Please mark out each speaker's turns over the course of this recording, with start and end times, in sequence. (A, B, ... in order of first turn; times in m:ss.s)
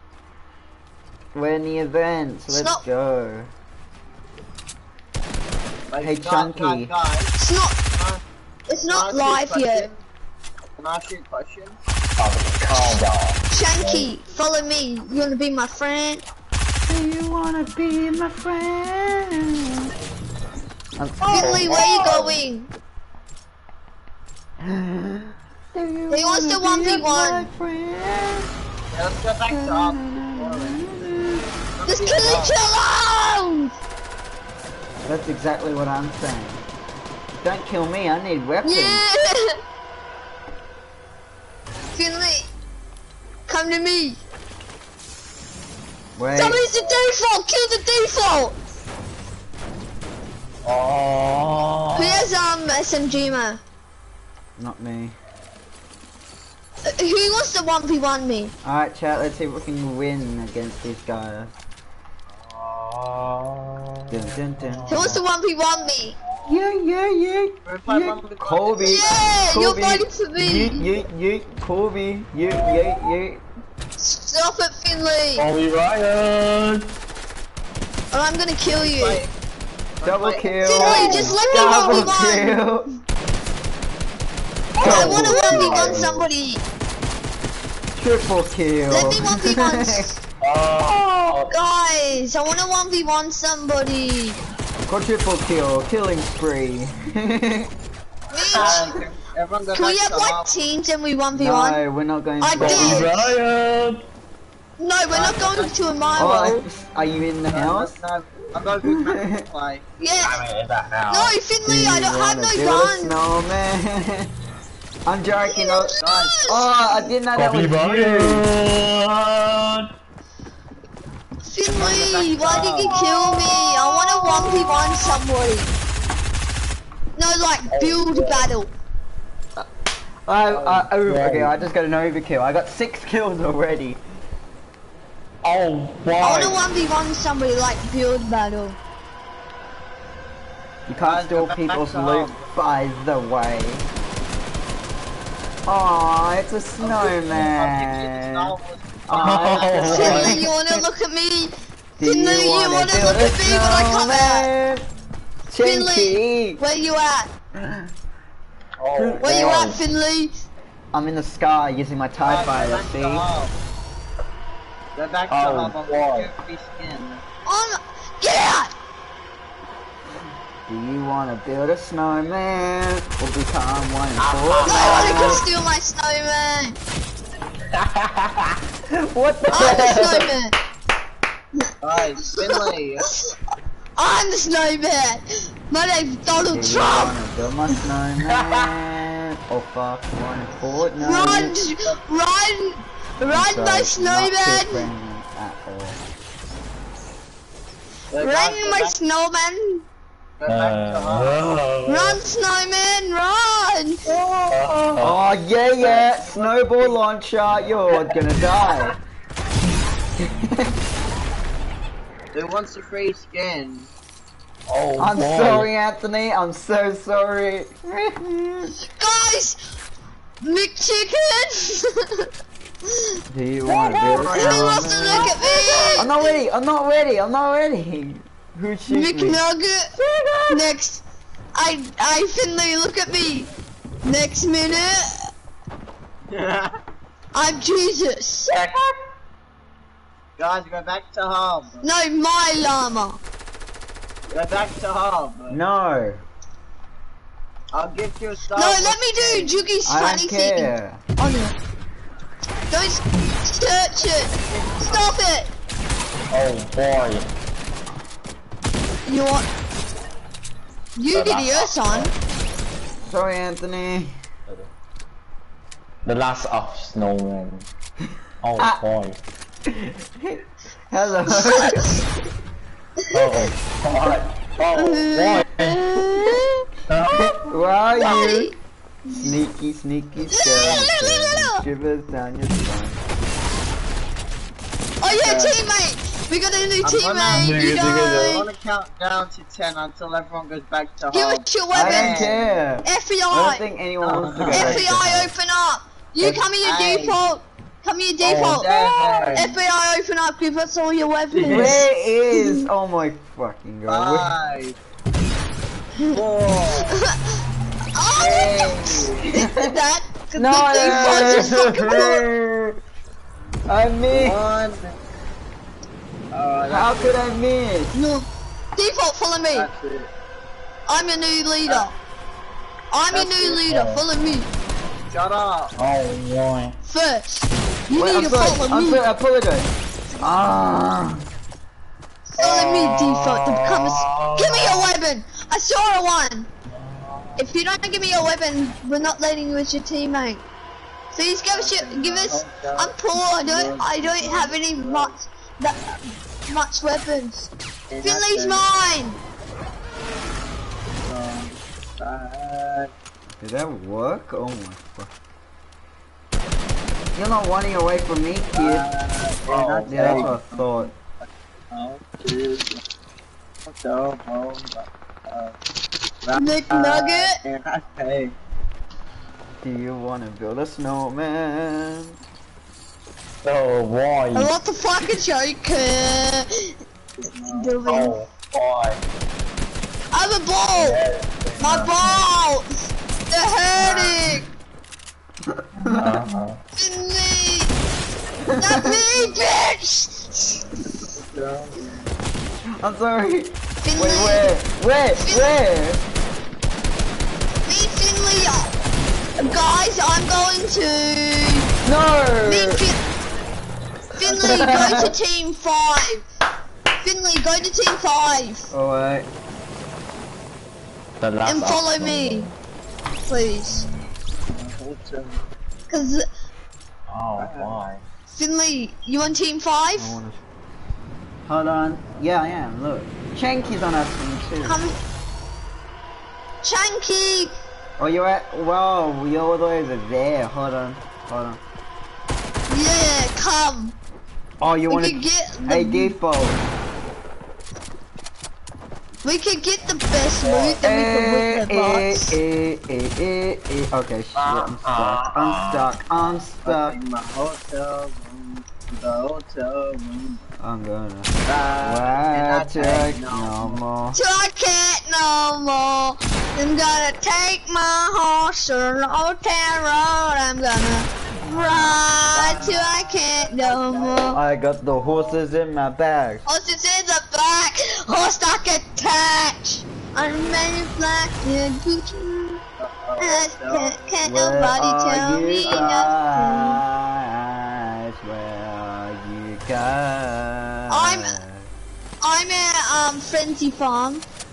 0:01.3-0:03.5 A
0:02.5-0:02.8 B
0:05.9-0:08.2 C
0:06.0-0:06.9 A
0:07.4-0:07.8 B
0:08.7-0:09.9 B
0:08.8-0:10.0 C
0:10.8-0:11.8 C
0:12.1-0:14.1 D
0:13.5-0:16.2 B
0:16.9-0:19.9 A
0:21.0-0:21.8 A
0:21.2-0:22.7 B
0:21.3-0:22.4 D
0:24.6-0:28.5 A
0:26.1-0:27.4 B
0:28.9-0:30.8 C
0:29.5-0:31.5 A
0:31.8-0:32.6 C
0:31.9-0:33.7 B
0:35.0-0:36.6 A
0:37.4-0:39.0 A
0:38.6-0:39.6 B
0:41.9-0:42.5 B
0:43.5-0:44.2 B
0:46.2-0:46.6 A
0:46.4-0:48.6 B
0:50.6-0:52.3 D
0:51.9-0:53.6 B
0:54.6-0:55.2 A
0:56.8-0:58.5 B
0:58.6-1:01.6 A
1:02.3-1:05.2 D
1:04.1-1:05.1 A
1:04.9-1:06.2 B
1:06.4-1:13.4 A
1:07.6-1:09.4 C
1:08.8-1:10.9 B
1:14.0-1:15.4 B
1:15.4-1:16.9 D
1:18.1-1:19.2 B
1:18.7-1:19.3 C
1:20.0-1:21.4 C
1:20.0-1:22.9 A
1:20.6-1:22.6 B
1:24.8-1:26.6 B
1:24.8-1:26.1 A
1:24.8-1:26.2 D
1:25.0-1:26.0 C
1:28.0-1:30.1 A
1:28.9-1:30.1 B
1:30.4-1:31.6 D
1:31.5-1:34.4 B
1:34.9-1:37.7 A
1:38.3-1:39.0 B
1:38.5-1:40.6 C
1:39.7-1:41.8 B
1:41.3-1:43.1 A
1:42.4-1:43.2 B
1:42.6-1:44.0 D
1:44.8-1:46.6 B
1:45.1-1:45.7 C
1:46.2-1:48.0 A
1:47.5-1:49.8 C
1:48.8-1:49.4 A
1:50.0-1:50.4 B
1:50.2-1:51.4 D
1:51.1-1:53.1 B
1:51.6-1:54.3 A
1:55.0-1:58.4 A
1:55.5-1:56.6 B
1:56.0-1:56.5 C
1:57.3-1:59.9 D
2:01.4-2:05.7 B
2:01.7-2:03.2 C
2:07.2-2:08.7 B
2:07.7-2:08.5 D
2:10.3-2:14.0 A
2:10.5-2:10.8 C
2:10.9-2:11.6 D
2:15.4-2:16.7 D
2:16.2-2:18.8 B
2:20.9-2:23.9 A
2:20.9-2:22.4 C
2:25.6-2:28.5 A
2:26.8-2:30.4 C
2:29.1-2:30.8 A
2:29.1-2:30.4 D
2:29.9-2:34.5 B
2:32.0-2:34.8 A
2:35.5-2:36.6 A
2:35.6-2:37.3 B
2:37.6-2:37.9 A
2:38.8-2:39.8 D
2:39.0-2:39.5 A
2:39.2-2:40.3 B
2:40.9-2:43.2 A
2:42.2-2:43.6 C
2:44.9-2:47.2 C
2:45.3-2:46.3 D
2:47.4-2:48.7 B
2:50.7-2:55.4 A
2:54.2-2:55.4 D
2:54.6-2:56.8 B
2:57.7-2:58.6 D
2:58.9-3:00.3 A
2:59.5-3:00.6 B
2:59.6-3:00.0 D
3:01.8-3:03.1 C
3:02.4-3:02.7 B
3:04.0-3:07.1 B
3:06.4-3:11.6 A
3:08.3-3:08.7 D
3:11.0-3:14.9 B
3:11.7-3:12.0 C
3:13.3-3:16.0 A
3:18.1-3:19.0 C
3:18.2-3:19.8 B
3:20.4-3:21.5 C
3:20.4-3:22.2 D
3:21.8-3:24.1 B
3:24.1-3:25.2 D
3:25.0-3:28.9 A
3:25.8-3:27.0 C
3:30.4-3:30.7 A
3:32.3-3:33.9 C
3:34.7-3:35.7 D
3:35.0-3:38.8 A
3:39.0-3:39.6 B
3:40.4-3:42.3 B
3:42.9-3:43.2 B
3:43.3-3:45.2 A
3:43.9-3:45.8 C
3:43.9-3:46.3 B
3:45.9-3:49.4 A
3:48.9-3:49.9 B
3:50.5-3:51.0 B
3:51.5-3:53.5 B
3:54.0-3:55.3 B
3:56.3-3:56.7 C
3:57.3-3:58.6 B
3:58.5-3:58.8 D
4:00.4-4:01.8 C
4:01.8-4:03.2 B
4:04.3-4:05.6 C
4:05.5-4:06.2 A
4:07.7-4:09.6 C
4:08.6-4:11.5 B
4:09.8-4:11.0 A
4:12.7-4:15.5 B
4:14.4-4:15.1 C
4:16.3-4:17.3 D
4:19.0-4:19.5 B
4:21.0-4:22.1 B
4:21.1-4:22.1 D
4:23.0-4:24.1 A
4:26.0-4:27.7 D
4:28.4-4:29.2 D
4:29.7-4:31.9 A
4:31.3-4:32.0 B
4:33.1-4:36.1 D
4:34.7-4:36.6 B
4:36.0-4:36.4 A
4:36.9-4:37.4 D
4:37.2-4:38.5 A
4:38.0-4:38.5 B
4:39.0-4:39.3 B
4:39.1-4:43.0 A
4:40.3-4:41.6 B
4:45.0-4:48.5 B
4:45.1-4:45.6 C
4:46.8-4:52.5 C
4:47.3-4:48.4 D
4:51.1-4:52.3 B
4:51.7-4:55.3 A
4:52.8-4:53.6 B
4:54.0-4:54.9 C
4:54.5-5:02.6 B
4:56.2-4:57.2 C
4:58.2-4:59.5 D
4:58.2-4:59.6 C
5:01.3-5:01.9 C
5:01.4-5:04.4 A
5:03.9-5:04.8 C
5:06.1-5:07.0 C
5:07.0-5:07.3 B
5:07.9-5:12.2 B
5:08.1-5:09.4 C
5:09.3-5:09.7 A
5:10.3-5:12.8 A
5:13.7-5:14.4 A
5:14.1-5:15.0 C
5:16.3-5:17.3 C
5:16.7-5:18.0 A
5:17.9-5:19.7 B
5:19.5-5:20.1 C
5:20.9-5:21.9 B
5:22.9-5:24.5 B
5:23.1-5:23.7 C
5:23.7-5:24.0 D
5:25.1-5:25.7 C
5:25.7-5:26.8 D
5:26.9-5:29.0 B
5:28.0-5:31.2 A
5:32.3-5:36.5 B
5:32.4-5:34.9 D
5:36.7-5:37.5 D
5:37.4-5:40.4 B
5:41.1-5:47.5 B
5:41.5-5:45.2 C
5:47.9-5:48.6 C
5:48.0-5:49.2 B
5:50.9-5:52.9 C
5:53.4-5:55.1 A
5:57.2-5:58.9 A
5:58.5-6:02.8 C
5:59.5-6:00.3 D
5:59.9-6:00.9 A
6:03.6-6:05.6 C
6:06.2-6:08.4 C
6:06.3-6:07.4 B
6:09.6-6:12.2 A
6:13.4-6:14.5 D
6:14.3-6:16.7 B
6:17.2-6:17.8 C
6:17.5-6:18.2 B
6:17.8-6:19.0 D
6:20.1-6:21.0 B
6:20.7-6:22.2 D
6:21.6-6:22.6 B
6:23.3-6:24.4 B
6:23.8-6:24.1 D
6:25.5-6:26.2 A
6:25.8-6:26.6 D
6:26.8-6:27.7 B
6:28.5-6:29.0 A
6:28.6-6:30.6 B
6:29.1-6:29.4 C
6:30.8-6:31.9 C
6:32.8-6:36.0 A
6:33.8-6:34.5 B
6:35.2-6:35.5 B
6:37.6-6:38.7 B
6:39.4-6:41.7 B
6:41.8-6:42.8 A
6:42.4-6:43.0 B
6:44.1-6:46.2 B
6:44.2-6:45.1 A
6:44.5-6:45.1 C
6:47.0-6:48.6 B
6:48.7-6:49.3 A
6:51.2-6:52.5 D
6:51.4-6:52.5 B
6:53.2-6:53.8 B
6:54.5-6:55.4 C
6:55.9-6:56.3 B
6:57.1-6:58.0 D
6:57.4-6:57.8 C
6:58.3-7:00.2 B
7:00.0-7:00.4 A
7:01.4-7:04.8 A
7:04.6-7:05.0 B
7:06.6-7:07.6 B
7:08.0-7:11.6 A
7:12.7-7:13.9 B
7:14.6-7:16.6 A
7:14.9-7:16.1 B
7:19.2-7:22.4 B
7:20.4-7:20.8 C
7:20.8-7:27.0 A
7:24.4-7:26.3 D
7:26.6-7:30.4 C
7:30.6-7:34.2 A
7:31.4-7:33.8 C
7:34.1-7:44.4 B
7:41.4-7:42.0 A
7:42.3-7:44.4 C
7:44.3-7:46.4 A
7:45.0-7:45.4 C
7:46.5-7:52.6 B
7:52.8-7:54.1 C
7:53.2-7:56.8 B
7:54.2-8:01.7 A
7:55.6-7:56.1 C
8:00.9-8:01.4 B
8:02.2-8:04.2 B